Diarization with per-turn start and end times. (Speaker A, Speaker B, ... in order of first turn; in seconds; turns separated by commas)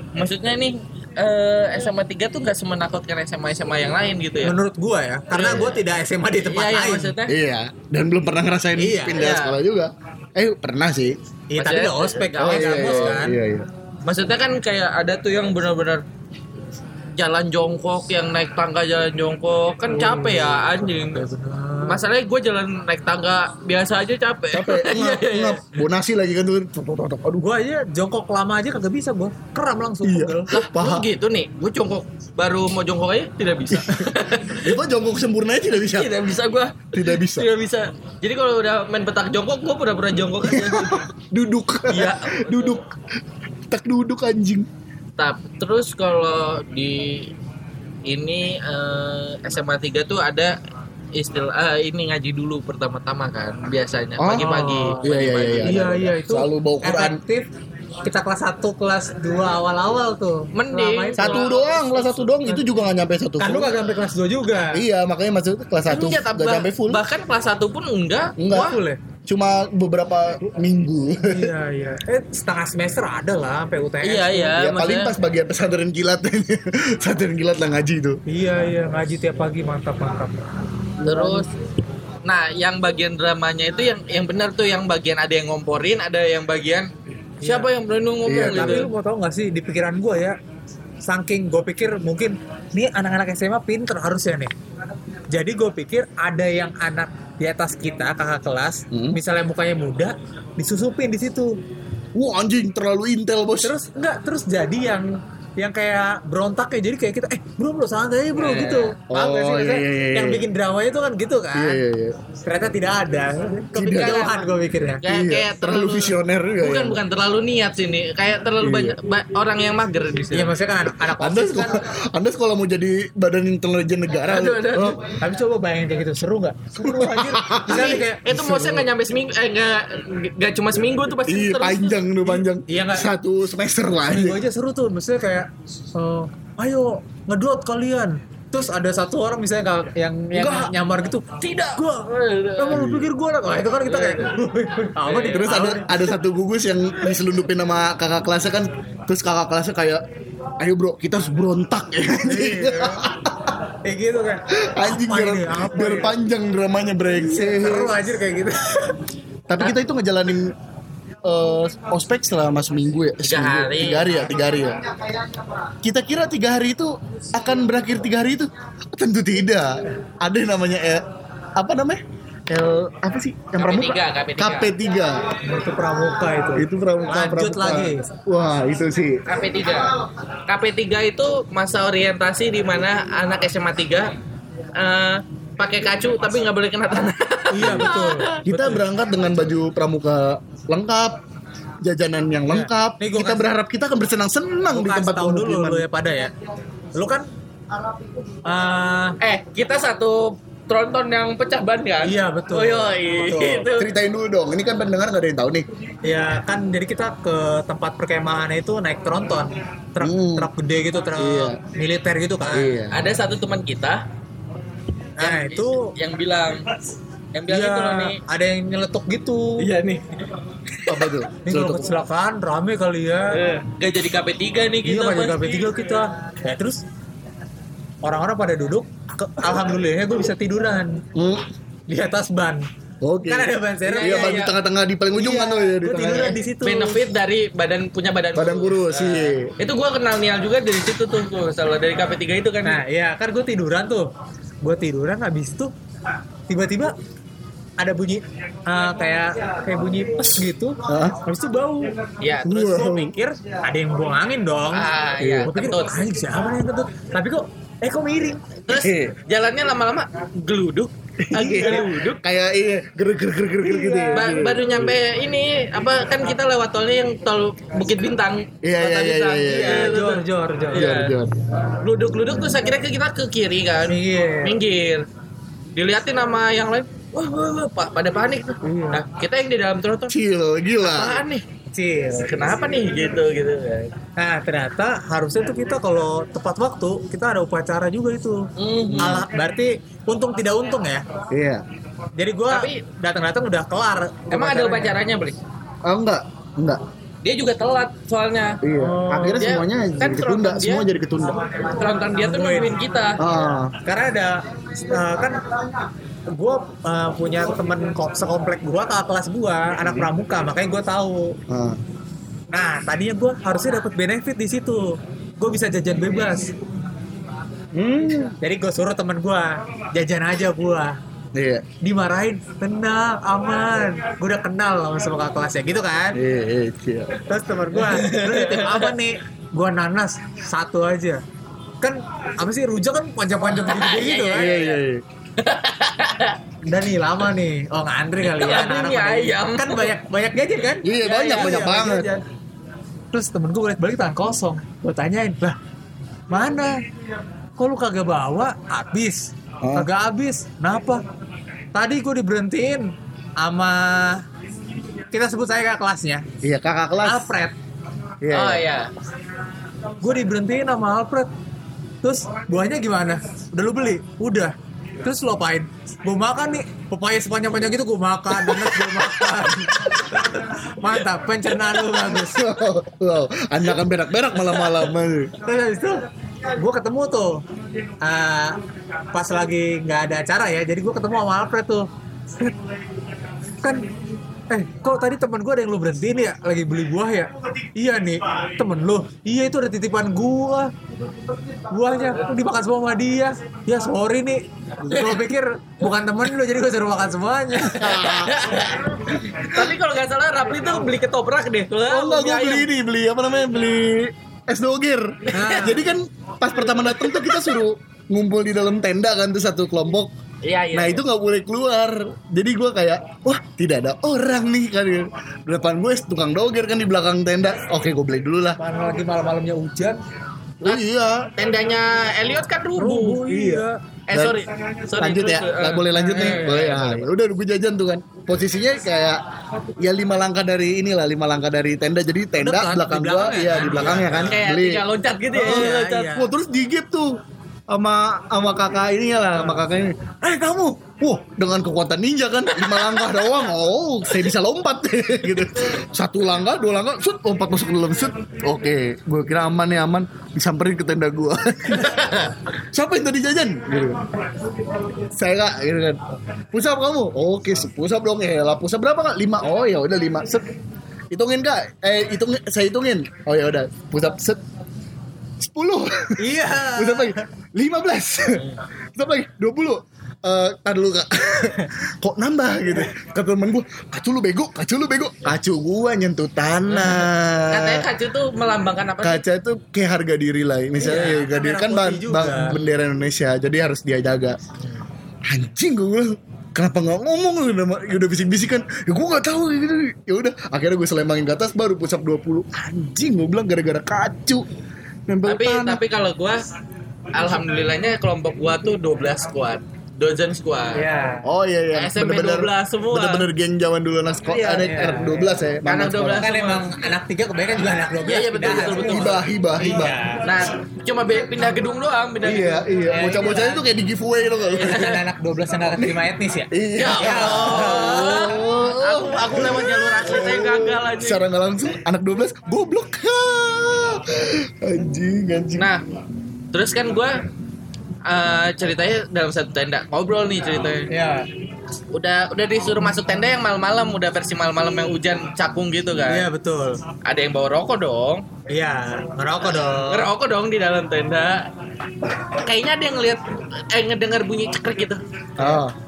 Speaker A: 0.1-4.6, Speaker B: 4.4-7.1, Speaker A: 5.3-5.8, Speaker A: 6.4-7.3, Speaker C: 7.3-11.2, Speaker B: 8.8-9.2, Speaker A: 9.1-9.6, Speaker B: 11.5-13.4, Speaker A: 11.6-13.2, Speaker C: 12.4-13.7, Speaker A: 14.0-16.0, Speaker A: 17.1-21.2, Speaker B: 19.9-22.0, Speaker A: 21.9-25.6, Speaker C: 24.5-27.4, Speaker B: 27.4-30.5, Speaker C: 30.0-31.1, Speaker A: 30.5-34.8, Speaker C: 33.7-36.3, Speaker A: 35.9-41.0, Speaker C: 36.9-37.5, Speaker C: 40.4-42.8, Speaker A: 41.9-42.8, Speaker C: 43.7-44.7, Speaker A: 45.2-47.3, Speaker A: 48.0-50.5, Speaker A: 51.1-55.9, Speaker C: 54.2-57.2, Speaker B: 54.4-55.0, Speaker B: 55.6-57.5, Speaker B: 58.0-62.7, Speaker A: 60.5-61.5, Speaker C: 61.2-63.8, Speaker B: 63.4-64.8, Speaker C: 64.7-67.0, Speaker A: 65.9-68.8, Speaker C: 68.4-71.5, Speaker B: 68.5-69.0, Speaker B: 71.2-74.5, Speaker A: 74.0-75.1, Speaker C: 74.5-78.2, Speaker B: 78.3-80.4, Speaker C: 81.0-81.5, Speaker A: 81.0-81.5, Speaker A: 82.2-86.9, Speaker B: 87.4-87.7, Speaker A: 87.4-88.9, Speaker C: 88.2-88.9, Speaker B: 88.5-90.4, Speaker B: 91.0-94.5, Speaker B: 95.3-101.6, Speaker C: 98.9-99.2, Speaker C: 102.1-103.7, Speaker B: 103.6-111.8, Speaker A: 108.3-108.9, Speaker C: 109.1-110.5, Speaker C: 111.5-112.2, Speaker B: 112.4-115.0, Speaker C: 113.7-114.3, Speaker A: 113.8-120.5, Speaker C: 115.0-117.0, Speaker C: 118.6-119.0, Speaker B: 120.3-121.8, Speaker C: 121.0-125.0, Speaker A: 124.2-125.0, Speaker B: 125.1-128.2, Speaker C: 126.8-128.9, Speaker A: 127.7-132.0, Speaker C: 131.2-134.4, Speaker B: 132.6-133.1, Speaker B: 134.1-146.0, Speaker C: 140.3-140.7, Speaker A: 141.3-142.8, Speaker C: 142.7-143.1, Speaker A: 143.8-144.4, Speaker A: 145.0-145.5, Speaker C: 145.2-150.0, Speaker C: 150.6-153.5, Speaker B: 152.2-153.1, Speaker B: 153.8-156.2, Speaker C: 154.5-158.0, Speaker B: 157.1-159.0, Speaker C: 159.5-160.5, Speaker C: 161.2-164.8, Speaker A: 163.2-164.3, Speaker C: 165.8-171.0, Speaker C: 171.6-175.4, Speaker A: 173.6-174.7, Speaker B: 175.4-178.1, Speaker C: 176.5-179.2, Speaker A: 179.2-179.9, Speaker A: 180.5-184.1, Speaker A: 184.7-188.5, Speaker B: 187.5-188.8, Speaker C: 187.6-191.2, Speaker C: 191.8-195.8, Speaker B: 192.5-193.5, Speaker B: 194.7-196.3, Speaker B: 196.9-197.3, Speaker B: 198.4-199.2, Speaker A: 199.2-203.9, Speaker B: 202.0-203.7, Speaker C: 203.7-205.7, Speaker B: 206.0-212.8, Speaker C: 210.0-210.5, Speaker C: 211.2-211.6, Speaker C: 212.5-213.1, Speaker A: 212.9-214.0, Speaker B: 215.2-215.9, Speaker A: 215.2-216.7, Speaker A: 217.3-218.2, Speaker B: 217.5-219.7, Speaker A: 219.6-220.1, Speaker A: 220.7-221.2, Speaker C: 220.9-221.9, Speaker B: 221.4-223.4, Speaker A: 223.3-225.8, Speaker B: 224.8-226.8, Speaker B: 228.0-231.0, Speaker C: 231.1-231.4, Speaker B: 231.9-232.7, Speaker C: 233.0-236.4, Speaker B: 233.2-234.5, Speaker A: 233.8-234.6, Speaker B: 235.1-237.0, Speaker A: 236.6-242.8, Speaker C: 238.3-239.5, Speaker B: 242.6-244.1, Speaker B: 244.6-245.7, Speaker B: 246.5-246.9, Speaker B: 247.8-254.9, Speaker C: 250.9-251.2, Speaker A: 252.2-253.1, Speaker C: 252.4-253.2, Speaker A: 254.7-255.9, Speaker C: 255.2-255.5, Speaker B: 255.4-258.6, Speaker C: 258.7-259.2, Speaker A: 258.7-262.2, Speaker C: 261.2-264.9, Speaker B: 263.6-264.3, Speaker A: 264.1-275.1, Speaker C: 268.6-270.0, Speaker B: 269.4-270.9, Speaker C: 270.7-271.3, Speaker B: 273.9-274.6, Speaker A: 275.7-280.1, Speaker B: 278.6-279.0, Speaker C: 280.1-281.2, Speaker A: 280.8-281.4, Speaker B: 281.7-282.3, Speaker A: 282.2-283.9, Speaker B: 284.2-291.1, Speaker A: 288.6-289.1, Speaker C: 288.9-289.3, Speaker C: 291.3-291.6, Speaker B: 292.2-295.0, Speaker A: 292.5-292.8, Speaker A: 294.3-295.4, Speaker C: 295.8-296.8, Speaker A: 297.2-298.6, Speaker C: 298.6-301.6, Speaker B: 298.7-299.6, Speaker A: 299.3-300.9, Speaker A: 301.6-303.2, Speaker B: 302.1-302.8, Speaker C: 303.2-303.7, Speaker B: 303.8-305.5, Speaker B: 306.3-311.4, Speaker C: 309.8-310.1, Speaker C: 311.5-311.8, Speaker B: 312.5-316.5, Speaker C: 317.7-318.4, Speaker B: 318.4-321.0, Speaker C: 321.3-321.6, Speaker B: 321.8-326.2, Speaker C: 326.1-327.2, Speaker B: 327.3-331.2, Speaker A: 327.8-328.9, Speaker B: 331.8-334.6, Speaker A: 333.5-334.8, Speaker C: 334.3-335.0, Speaker A: 335.4-336.4, Speaker B: 336.6-342.2, Speaker A: 338.2-339.9, Speaker C: 340.8-342.1, Speaker A: 341.1-341.6, Speaker B: 343.1-345.6, Speaker B: 346.3-346.8, Speaker B: 347.6-351.0, Speaker C: 349.6-349.9, Speaker B: 351.7-354.2, Speaker B: 355.1-356.3, Speaker C: 356.4-357.3, Speaker B: 357.0-357.6, Speaker C: 358.2-358.6, Speaker A: 358.3-358.9, Speaker B: 360.0-361.3, Speaker B: 362.0-372.5, Speaker C: 372.0-375.3, Speaker B: 375.4-377.4, Speaker B: 378.0-378.6, Speaker B: 379.1-381.9, Speaker B: 383.6-383.9, Speaker B: 384.5-390.7, Speaker B: 391.7-398.3, Speaker C: 394.8-395.1, Speaker A: 394.9-395.2, Speaker A: 397.8-402.7, Speaker C: 398.0-398.2, Speaker C: 401.9-410.1, Speaker B: 405.3-405.9, Speaker A: 405.4-405.7, Speaker A: 406.9-407.5, Speaker A: 410.4-411.0, Speaker C: 410.7-418.6, Speaker B: 418.6-420.0, Speaker C: 420.6-421.3, Speaker A: 421.4-427.1, Speaker B: 422.8-423.8, Speaker C: 424.1-424.4, Speaker C: 425.0-429.2, Speaker B: 426.0-426.7, Speaker C: 429.8-434.8, Speaker B: 432.4-434.4, Speaker A: 433.6-436.2, Speaker B: 435.3-436.3, Speaker C: 435.4-437.1, Speaker C: 437.7-452.2, Speaker A: 442.5-443.3, Speaker A: 451.8-452.3, Speaker C: 452.7-454.0, Speaker C: 455.1-456.0, Speaker C: 456.5-460.5, Speaker C: 461.1-464.4, Speaker C: 465.4-477.9, Speaker B: 466.2-467.2, Speaker B: 476.7-477.0, Speaker A: 477.5-479.2, Speaker C: 479.0-484.4, Speaker B: 480.8-482.6, Speaker C: 485.3-494.4, Speaker C: 495.1-495.8, Speaker A: 495.2-496.4, Speaker A: 497.1-500.8, Speaker B: 500.7-501.3, Speaker C: 501.2-506.3, Speaker A: 501.7-503.3, Speaker B: 504.3-505.4, Speaker A: 505.6-506.8, Speaker B: 506.1-510.3, Speaker A: 508.0-509.2, Speaker C: 508.7-510.0, Speaker A: 510.2-512.7, Speaker C: 512.2-514.8, Speaker B: 512.8-513.6, Speaker A: 514.5-515.0, Speaker B: 514.6-518.3, Speaker C: 515.8-525.7, Speaker A: 516.8-521.2, Speaker A: 525.6-525.8, Speaker A: 526.5-527.2, Speaker A: 528.0-530.9, Speaker B: 530.9-531.3, Speaker A: 531.9-536.3, Speaker B: 536.1-536.8, Speaker A: 537.0-538.3, Speaker B: 538.5-540.1, Speaker A: 539.5-541.5, Speaker A: 542.1-545.0, Speaker C: 545.4-545.7